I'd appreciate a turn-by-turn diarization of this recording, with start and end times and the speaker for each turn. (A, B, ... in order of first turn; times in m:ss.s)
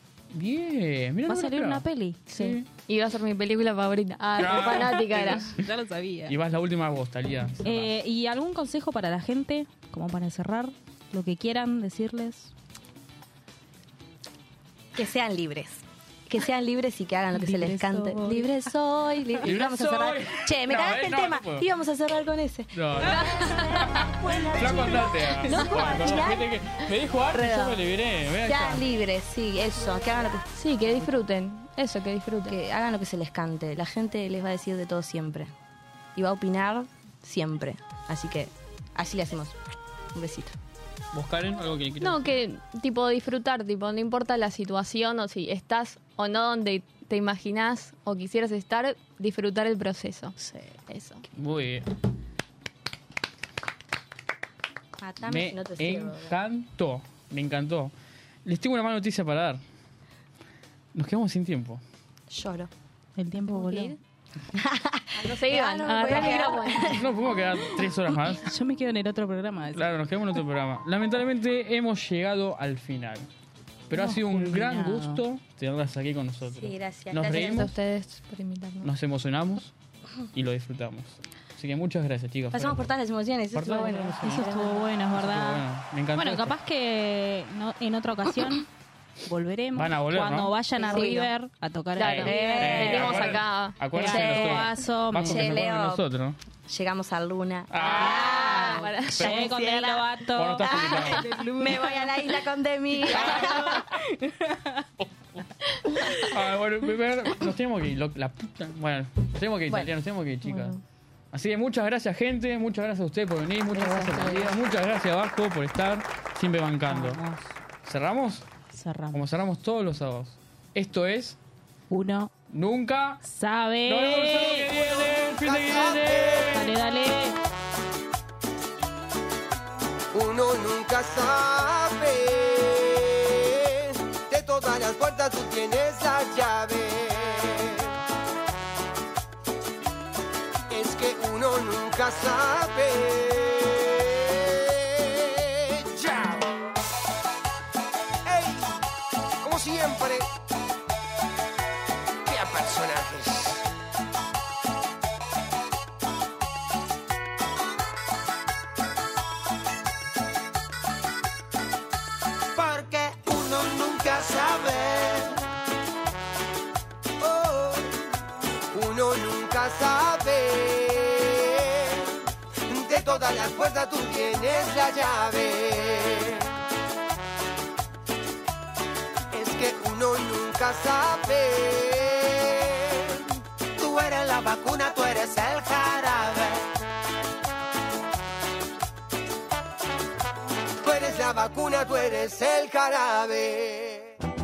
0:00.3-0:02.6 A
0:01.3-0:02.2 B
0:02.3-0:05.5 C
0:04.4-0:05.6 A
0:04.4-0:06.4 B
0:06.3-0:07.9 A
0:07.6-0:12.5 B
0:14.9-0:26.5 D
0:17.3-0:18.5 B
0:19.4-0:21.7 A
0:22.7-0:23.3 A
0:23.2-0:23.9 C
0:24.5-0:28.9 A
0:24.6-0:25.1 B
0:25.5-0:26.0 C
0:27.3-0:27.8 D
0:28.4-0:31.1 D
0:30.6-0:32.6 C
0:32.4-0:35.5 D
0:36.2-0:39.6 D
0:40.1-0:40.6 D
0:41.1-0:42.4 A
0:42.0-0:50.4 C
0:50.4-0:51.0 D
0:51.3-0:51.9 A
0:55.0-0:56.4 D
0:55.3-0:57.9 A
0:58.4-0:59.6 A
1:00.9-1:01.8 A
1:02.3-1:02.7 D
1:03.2-1:04.0 B
1:03.5-1:04.0 D
1:04.5-1:07.1 D
1:05.2-1:07.0 C
1:06.2-1:06.4 B
1:06.9-1:08.5 A
1:08.3-1:09.9 B
1:09.7-1:13.3 A
1:13.9-1:17.7 A
1:13.9-1:15.2 B
1:16.4-1:17.7 D
1:17.3-1:18.9 C
1:18.8-1:19.7 A
1:20.3-1:22.9 A
1:22.5-1:24.9 D
1:23.5-1:24.4 A
1:24.2-1:25.6 B
1:25.1-1:26.5 A
1:26.2-1:28.7 B
1:29.3-1:33.2 B
1:29.7-1:30.5 A
1:30.8-1:31.3 D
1:30.9-1:31.3 C
1:32.0-1:33.8 C
1:32.0-1:36.4 A
1:32.2-1:33.4 D
1:33.9-1:36.0 D
1:33.9-1:35.6 B
1:36.7-1:40.1 D
1:37.7-1:39.5 A
1:37.8-1:42.1 B
1:38.0-1:39.3 C
1:40.3-1:41.3 A
1:40.6-1:43.8 D
1:43.1-1:44.0 A
1:43.2-1:44.8 B
1:46.1-1:50.8 A
1:50.4-1:50.8 C
1:51.3-1:57.2 A
1:53.7-1:54.6 D
1:56.9-1:57.5 B
1:57.8-1:58.5 A
1:58.7-1:59.2 B
1:59.1-2:01.4 A
2:01.9-2:02.3 B
2:02.5-2:03.2 A
2:03.2-2:04.7 B
2:03.9-2:06.8 A
2:04.7-2:06.6 E
2:06.5-2:07.4 B
2:10.1-2:17.9 E
2:20.7-2:26.5 E
2:28.3-2:28.8 E
2:29.4-2:30.3 E
2:32.3-2:33.6 E
2:42.6-2:45.4 E
2:47.2-2:48.0 E
2:48.7-2:52.1 E
2:52.7-2:56.5 E
2:59.3-3:06.7 E
3:10.8-3:14.1 E